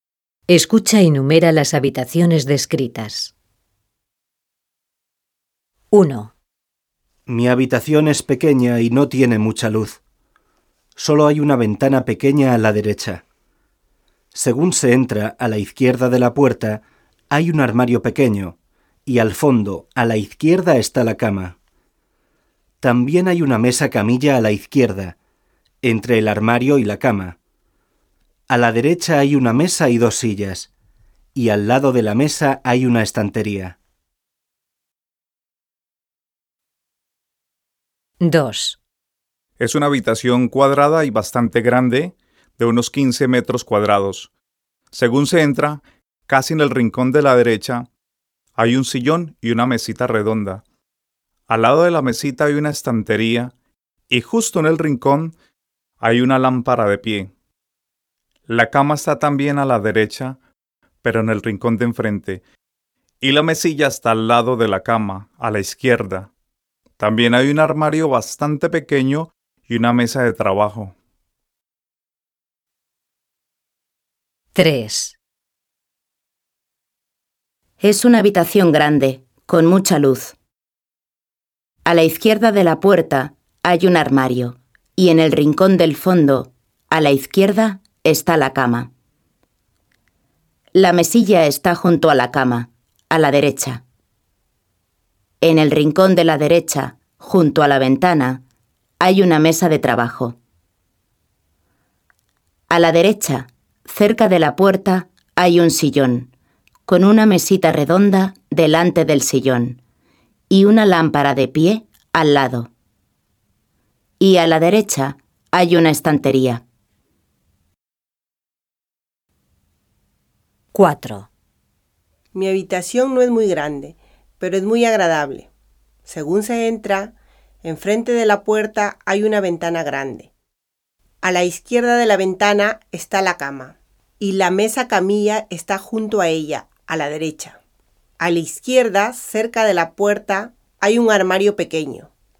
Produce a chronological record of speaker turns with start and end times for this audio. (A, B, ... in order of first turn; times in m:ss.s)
0:00.5-0:03.3 A
0:05.9-0:06.3 A
0:07.3-0:10.0 B
0:11.0-0:13.2 B
0:14.3-0:21.5 B
0:22.8-0:25.1 B
0:25.8-0:27.4 B
0:28.5-0:30.7 B
0:31.3-0:33.8 B
0:38.2-0:38.8 A
0:39.6-0:44.3 C
0:44.9-0:47.9 C
0:48.6-0:50.6 C
0:51.5-0:53.5 C
0:54.1-0:55.3 C
0:56.0-0:57.3 C
0:58.5-1:00.4 C
1:01.0-1:02.4 C
1:03.2-1:06.3 C
1:07.0-1:10.9 C
1:14.5-1:15.2 A
1:17.8-1:20.4 D
1:21.8-1:28.9 D
1:30.7-1:33.8 D
1:35.4-1:38.4 D
1:39.0-1:40.4 D
1:42.7-1:46.3 D
1:46.8-1:49.8 D
1:50.5-1:52.7 D
1:54.2-1:56.6 D
2:00.7-2:01.3 A
2:02.3-2:05.5 E
2:06.0-2:10.3 E
2:11.2-2:17.6 E
2:18.2-2:22.1 E